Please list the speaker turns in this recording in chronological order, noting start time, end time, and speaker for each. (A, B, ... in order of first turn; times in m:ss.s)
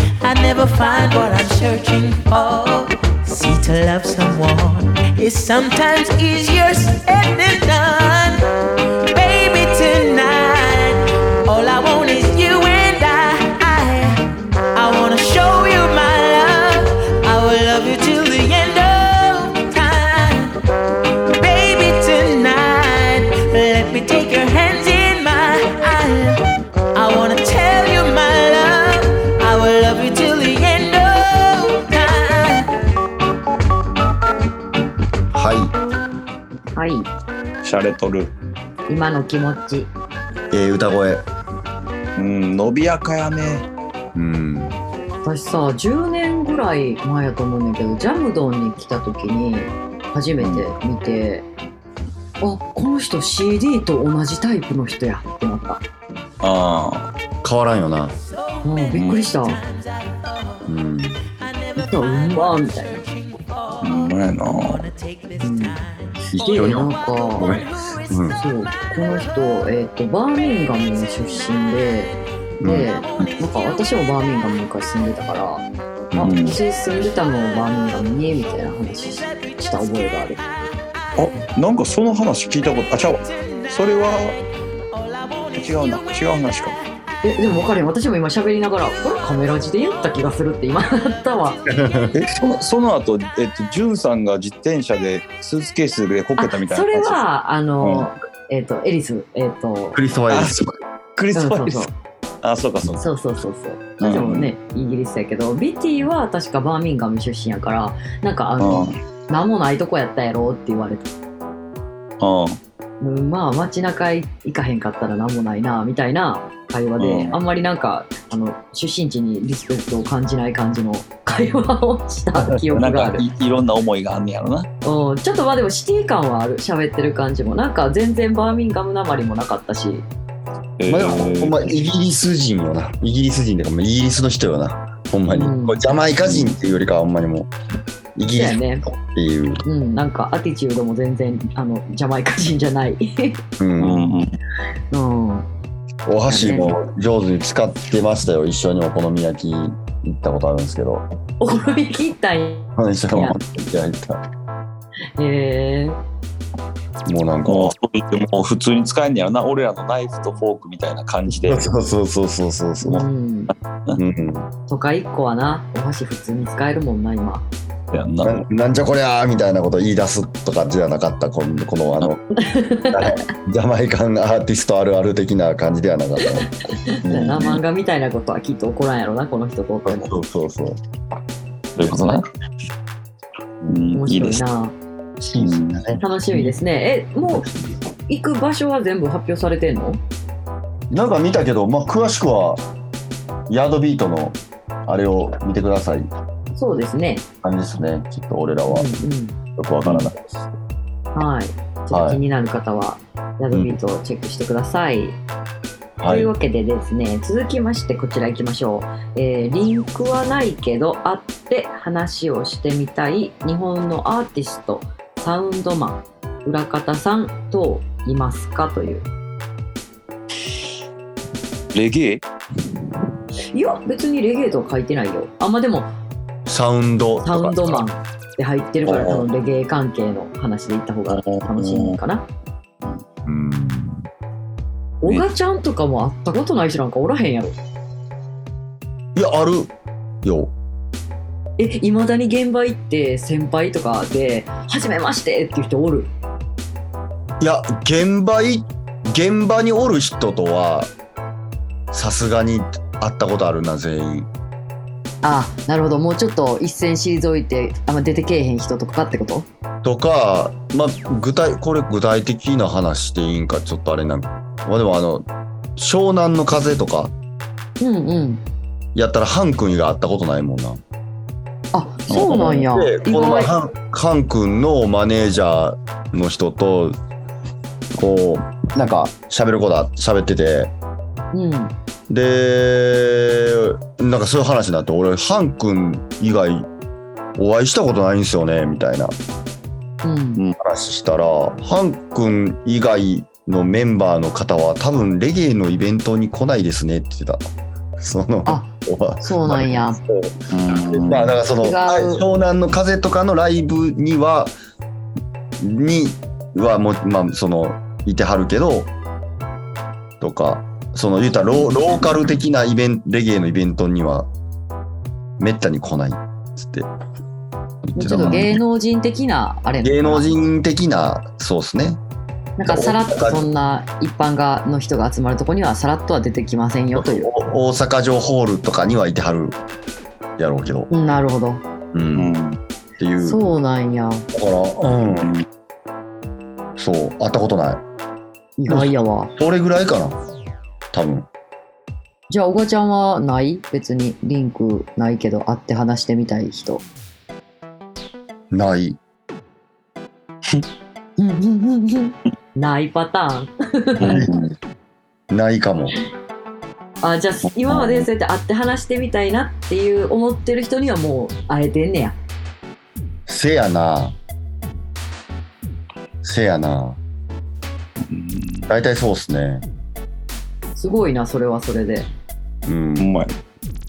0:00.2-0:08.5 A
0:09.1-0:20.6 A
0:21.4-0:26.4 A
0:26.9-0:32.7 A
0:35.3-0:35.7 B
0:36.8-0:37.1 C
0:37.6-0:38.3 D
0:38.9-0:39.9 C
0:40.5-0:41.2 B
0:42.2-0:43.7 D
0:44.2-0:44.8 B
0:45.2-0:51.5 C
0:50.4-0:50.7 D
0:52.4-0:55.8 C
0:56.4-0:57.1 D
0:57.4-0:58.2 B
0:58.4-1:00.7 A
0:58.6-0:59.6 C
1:00.7-1:01.2 B
1:01.4-1:08.4 A
1:01.8-1:03.0 C
1:03.8-1:04.8 D
1:05.4-1:05.8 C
1:06.3-1:08.4 B
1:06.4-1:07.6 C
1:08.3-1:12.1 C
1:12.6-1:12.9 B
1:12.6-1:20.4 C
1:16.2-1:16.6 D
1:19.3-1:19.6 A
1:21.2-1:24.4 D
1:23.2-1:24.1 A
1:24.9-1:26.2 A
1:25.6-1:26.8 D
1:27.2-1:31.6 C
1:31.5-1:32.0 A
1:31.7-1:32.2 B
1:32.1-1:37.2 D
1:36.4-1:40.0 C
1:37.8-1:38.1 D
1:40.0-1:40.8 B
1:40.3-1:41.9 D
1:41.3-1:41.9 C
1:42.4-1:43.1 D
1:43.0-1:51.1 C
1:44.0-1:44.5 D
1:48.6-1:49.0 D
1:52.2-1:52.6 D
1:53.0-2:03.3 C
1:57.0-1:57.4 D
2:02.7-2:04.7 D
2:04.8-2:10.0 C
2:10.8-2:11.7 D
2:10.9-2:17.5 B
2:15.3-2:15.9 C
2:16.2-2:16.5 D
2:18.2-2:19.6 B
2:18.3-2:18.9 C
2:19.6-2:23.4 C
2:23.6-2:24.1 B
2:23.8-2:24.3 D
2:24.9-2:25.5 C
2:26.1-2:31.0 B
2:26.3-2:26.8 C
2:31.4-2:33.4 C
2:32.8-2:34.2 B
2:35.2-2:36.0 C
2:37.0-2:37.8 B
2:37.5-2:41.7 D
2:41.4-2:43.1 B
2:42.8-2:43.5 C
2:44.0-2:44.5 B
2:44.7-2:47.5 C
2:47.9-2:48.4 D
2:48.2-2:52.2 B
2:52.4-2:53.2 C
2:52.9-2:56.5 B
2:56.3-3:00.2 C
2:57.0-2:57.6 D
2:59.9-3:00.8 B
3:01.8-3:02.2 D
3:03.6-3:03.9 B
3:03.7-3:04.4 D
3:04.0-3:04.8 C
3:05.2-3:06.0 B
3:05.3-3:06.0 D
3:06.0-3:07.5 C
3:08.1-3:10.0 C
3:10.9-3:12.6 B
3:13.5-3:16.1 B
3:16.6-3:17.2 C
3:17.4-3:19.0 B
3:18.7-3:19.4 C
3:19.6-3:20.5 B
3:21.2-3:25.2 C
3:21.9-3:22.2 B
3:26.0-3:26.3 B
3:26.1-3:39.1 C
3:41.7-3:42.2 D
3:43.5-3:45.9 C
3:46.5-3:47.8 B
3:47.2-3:52.3 C
3:48.9-3:49.3 D
3:51.1-3:52.0 D
3:53.2-3:54.1 B
3:55.0-3:57.6 C
3:59.2-3:59.7 B
4:00.2-4:00.5 B
4:01.6-4:06.1 C
4:07.4-4:10.9 B
4:11.9-4:14.3 B
4:15.2-4:19.5 C
4:19.8-4:27.1 B
4:27.8-4:28.4 C
4:29.0-4:30.8 B
4:31.7-4:33.5 C
4:32.1-4:37.0 B
4:32.1-4:32.5 D
4:38.0-4:40.7 B
4:41.3-4:41.7 C
4:42.1-4:46.7 B
4:47.4-4:49.1 B
4:50.0-4:50.4 C
4:50.6-4:57.4 B
4:58.0-5:04.5 B
4:58.5-4:58.7 C
4:59.2-5:00.0 C
5:00.5-5:01.4 D
5:01.6-5:02.2 C
5:05.6-5:08.9 B
5:10.2-5:14.3 B
5:15.4-5:16.9 B
5:17.9-5:18.6 B
5:18.0-5:20.4 C
5:18.2-5:18.5 D
5:19.8-5:22.0 B
5:22.6-5:27.3 C
5:22.7-5:23.4 B
5:26.9-5:29.6 B
5:30.4-5:30.9 B
5:30.9-5:31.6 C
5:31.9-5:32.3 B
5:32.2-5:32.6 D
5:33.0-5:33.6 B
5:33.2-5:34.3 C
5:34.3-5:35.3 B
5:34.9-5:35.4 D
5:36.8-5:37.8 B
5:38.6-5:39.3 C
5:38.7-5:40.2 B
5:40.9-5:41.3 B
5:42.3-5:46.8 C
5:48.5-5:49.0 B
5:51.2-5:54.2 C
5:54.0-5:54.5 D
5:54.0-5:54.4 B
5:55.3-5:56.0 B
5:57.0-6:02.2 C
6:03.3-6:04.2 B
6:06.2-6:07.0 B
6:08.0-6:08.7 D
6:08.7-6:09.7 B
6:10.8-6:12.1 C
6:12.7-6:13.1 B
6:13.0-6:13.3 D